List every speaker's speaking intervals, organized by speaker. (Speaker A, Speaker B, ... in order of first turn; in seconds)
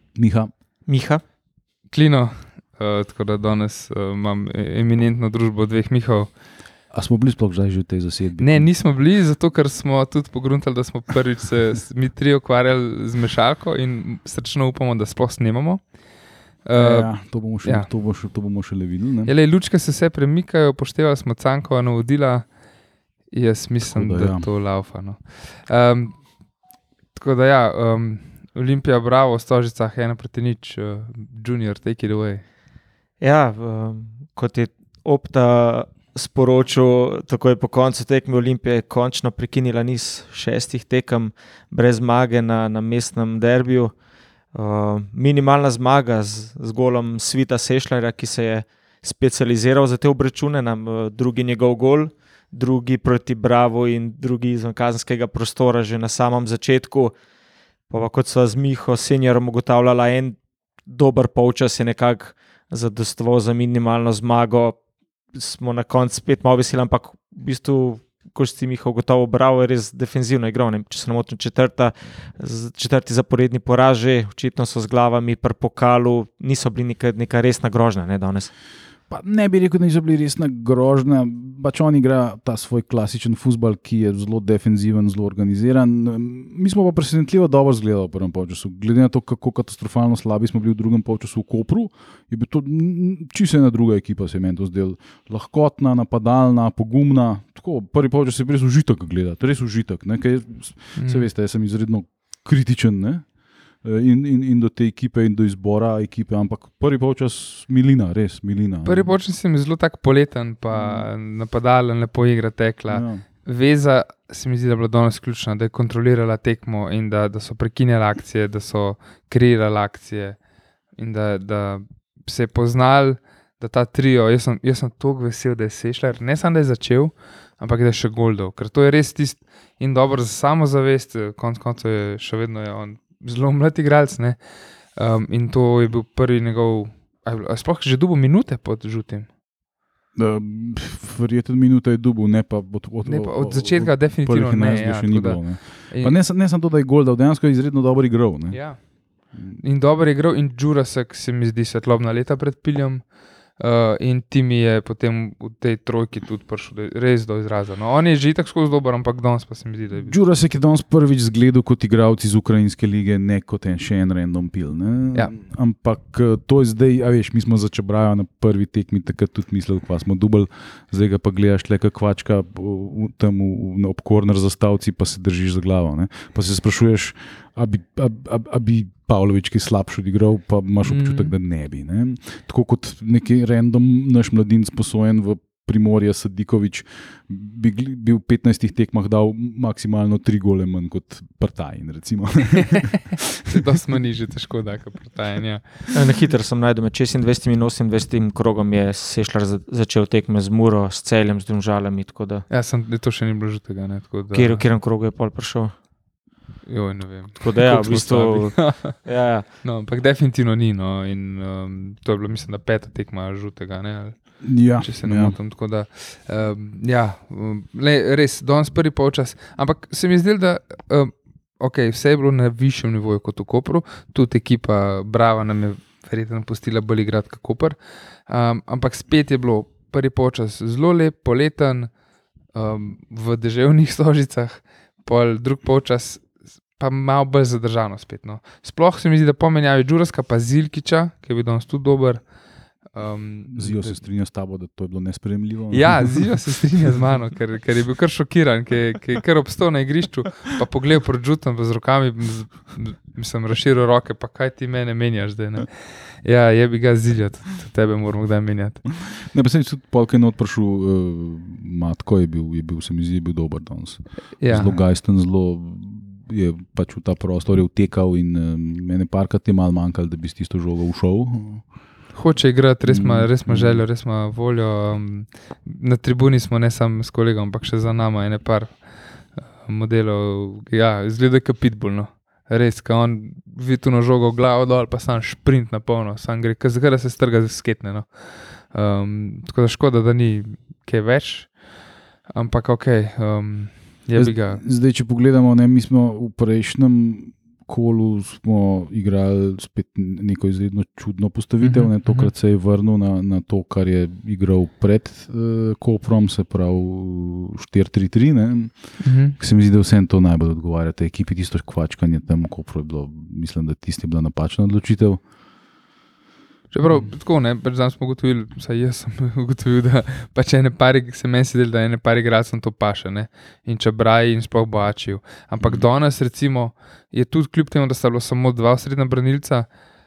Speaker A: 0.1-0.5, 6.9-8.7, 16.7-19.3, 23.8-24.5, 79.1-103.3, 103.8-109.1, 110.7-111.1, 112.9-113.2, 140.1-149.6, 159.9-193.2, 214.4-215.4, 243.5-246.3, 259.0-271.8, 272.8-273.9, 294.1-315.2, 316.8-317.1, 325.6-325.9
Speaker B: 0.8-1.2, 33.2-44.0, 44.5-57.1, 57.9-64.8, 65.3-78.5, 195.9-202.5, 204.3-205.7, 207.4-209.4
Speaker C: 1.9-6.3, 8.4-16.1, 16.6-17.9, 19.2-22.6, 23.2-26.3, 27.1-32.4, 101.0-101.3, 108.8-120.4, 120.9-139.3, 143.0-146.2, 148.5-160.2, 180.8-181.3, 193.4-195.9, 202.5-204.7, 206.6-231.9, 232.5-244.0, 245.7-258.9, 264.4-264.8, 272.1-294.6, 301.6-302.3, 309.0-309.4, 316.7-329.7